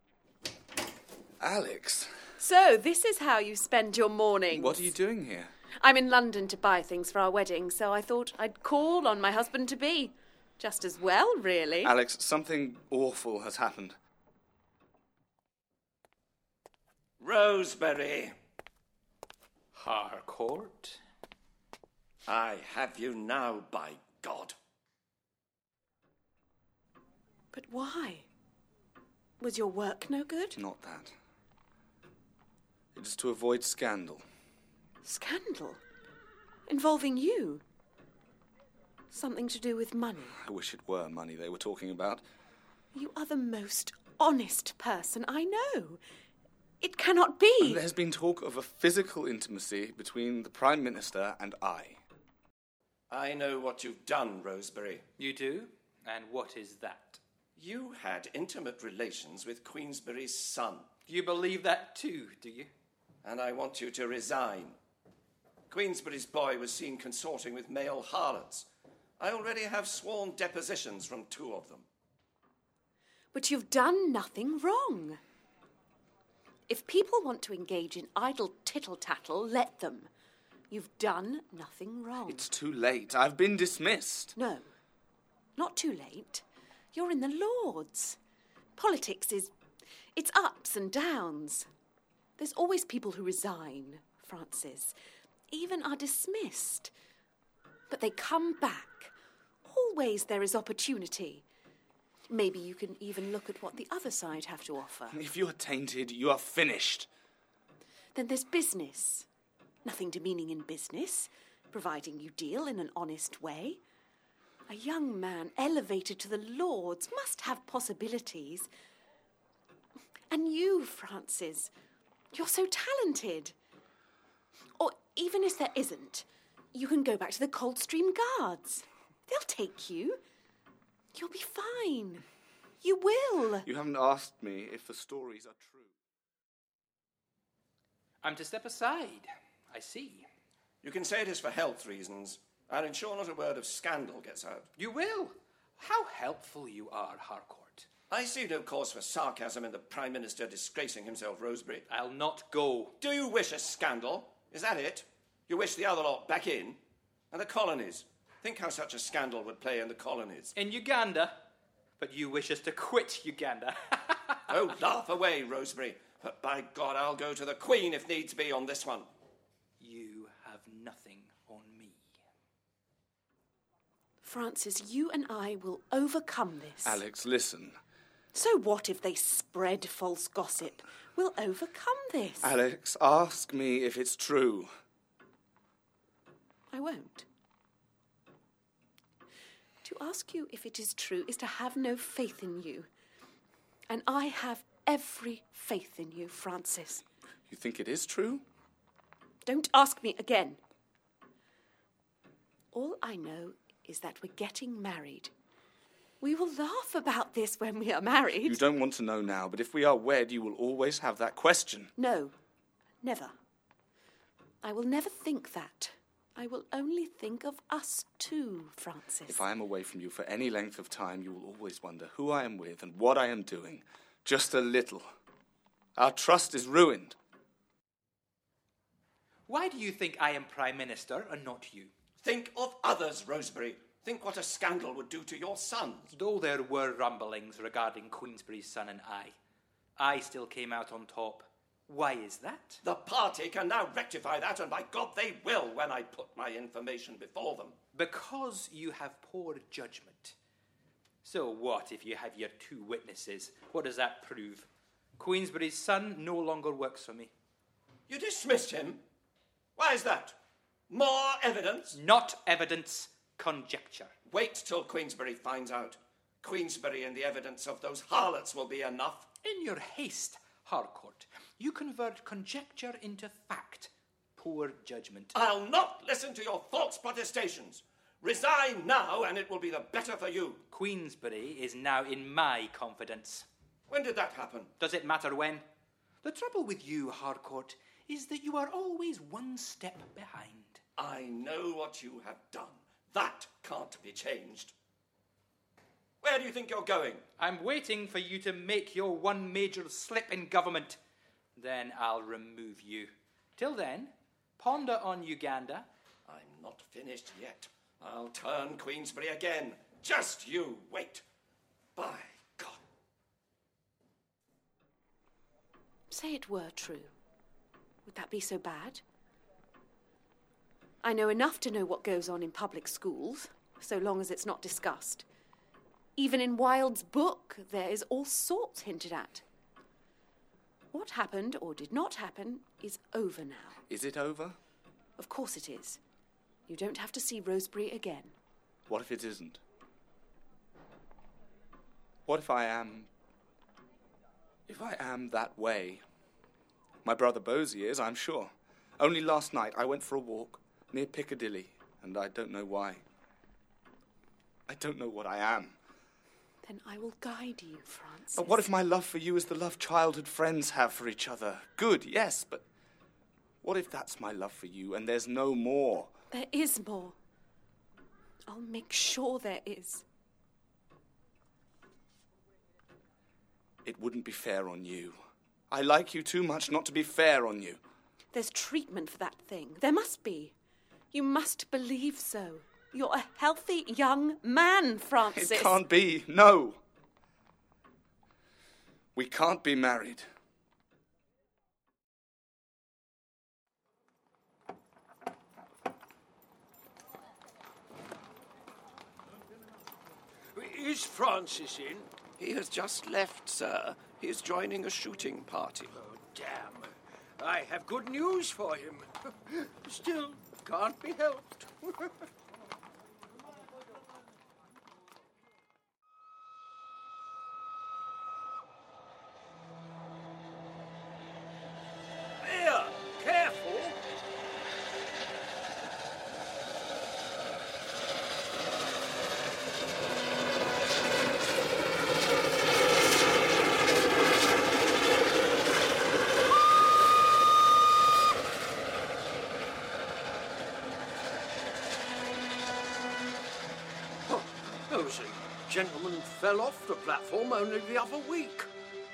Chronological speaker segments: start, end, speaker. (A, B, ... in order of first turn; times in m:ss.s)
0:01.4-0:02.2 A
0:02.4-0:04.9 B
0:04.5-0:05.5 A
0:05.8-0:11.9 B
0:11.8-0:14.0 A
0:17.2-0:18.3 C
0:19.8-0:21.0 D
0:22.3-0:24.6 C
0:27.5-0:28.3 B
0:29.4-0:30.6 B
0:30.6-0:31.1 A
0:33.0-0:34.2 A
0:35.0-0:35.8 B
0:36.7-0:37.6 B
0:39.1-0:40.4 B
0:40.4-0:42.2 A
0:42.9-0:46.0 B
0:46.8-0:47.8 B
0:47.6-0:52.0 A
0:53.1-0:55.0 C
0:55.2-0:57.2 D
0:57.6-1:00.9 C
1:01.1-1:02.7 D
1:03.2-1:04.8 C
1:05.7-1:08.7 C
1:09.2-1:11.9 C
1:13.3-1:15.2 B
1:16.7-1:20.1 B
1:20.7-1:22.5 B
1:22.2-1:24.4 A
1:24.4-1:24.7 B
1:25.6-1:28.2 B
1:28.8-1:29.5 B
1:30.2-1:31.7 B
1:32.4-1:34.9 B
1:35.5-1:36.9 B
1:37.9-1:39.1 B
1:39.6-1:41.4 B
1:42.3-1:45.2 B
1:45.1-1:47.1 A
1:48.2-1:49.2 B
1:49.8-1:53.8 B
1:54.7-1:58.7 B
2:00.3-2:01.7 B
2:02.3-2:03.5 B
2:04.8-2:10.2 B
2:11.1-2:12.2 B
2:12.8-2:13.7 B
2:13.6-2:15.9 A
2:18.2-2:20.3 D
2:20.8-2:24.7 C
2:24.8-2:27.9 D
2:28.1-2:31.9 C
2:31.9-2:33.0 D
2:33.0-2:36.8 C
2:37.3-2:40.6 C
2:40.6-2:41.4 D
2:42.0-2:44.5 D
2:44.5-2:49.1 C
2:49.8-2:52.1 D
2:54.2-2:57.0 B
2:56.8-2:57.8 A
2:58.3-3:02.5 B
3:02.4-3:04.7 A
3:06.7-3:07.2 B
3:09.8-3:12.9 B
3:13.9-3:17.0 B
3:17.5-3:18.4 A
3:19.4-3:20.6 B
3:22.7-3:25.3 B
3:26.2-3:28.6 B
3:28.4-3:31.9 A
3:32.0-3:32.3 B
3:33.0-3:33.3 B
3:34.6-3:39.4 B
3:39.3-3:45.1 A
3:46.0-3:47.2 A
3:49.5-3:51.9 D
3:52.2-3:56.1 C
3:56.1-3:59.3 D
4:00.0-4:02.8 D
4:02.8-4:07.8 C
4:07.9-4:10.4 D
4:11.2-4:17.3 D
4:18.1-4:19.0 C
4:19.8-4:20.4 C
4:20.9-4:22.0 C
4:21.9-4:24.1 D
4:24.3-4:29.3 C
4:29.4-4:35.4 D
4:35.3-4:40.6 C
4:40.7-4:43.5 D
4:43.9-4:44.7 C
4:44.8-4:45.6 D
4:46.2-4:50.8 D
4:51.0-4:54.7 C
4:56.2-4:57.2 C
4:57.4-5:01.0 D
5:01.6-5:05.9 D
5:06.2-5:11.2 C
5:12.0-5:12.8 C
5:16.1-5:17.1 B
5:18.1-5:19.0 B
5:21.0-5:25.2 B
5:26.2-5:29.4 B
5:30.9-5:33.8 B
5:33.9-5:34.6 A
5:35.2-5:36.0 B
5:36.7-5:38.3 B
5:38.9-5:39.6 A
5:42.2-5:43.1 A
5:44.7-5:46.0 A
5:47.0-5:53.0 A
5:54.7-5:55.8 A
5:56.6-5:58.6 B
5:58.4-6:02.6 A
6:03.6-6:06.1 A
6:06.3-6:07.2 B
6:08.5-6:10.0 B
6:13.8-6:15.2 A
6:15.7-6:17.8 A
6:18.3-6:20.5 B
6:21.1-6:25.8 B
6:25.3-6:26.8 A
6:29.2-6:30.3 A
6:40.6-6:42.1 E
6:42.4-6:46.0 C
6:45.9-6:52.1 E
7:02.4-7:04.0 E
7:24.2-7:28.7 E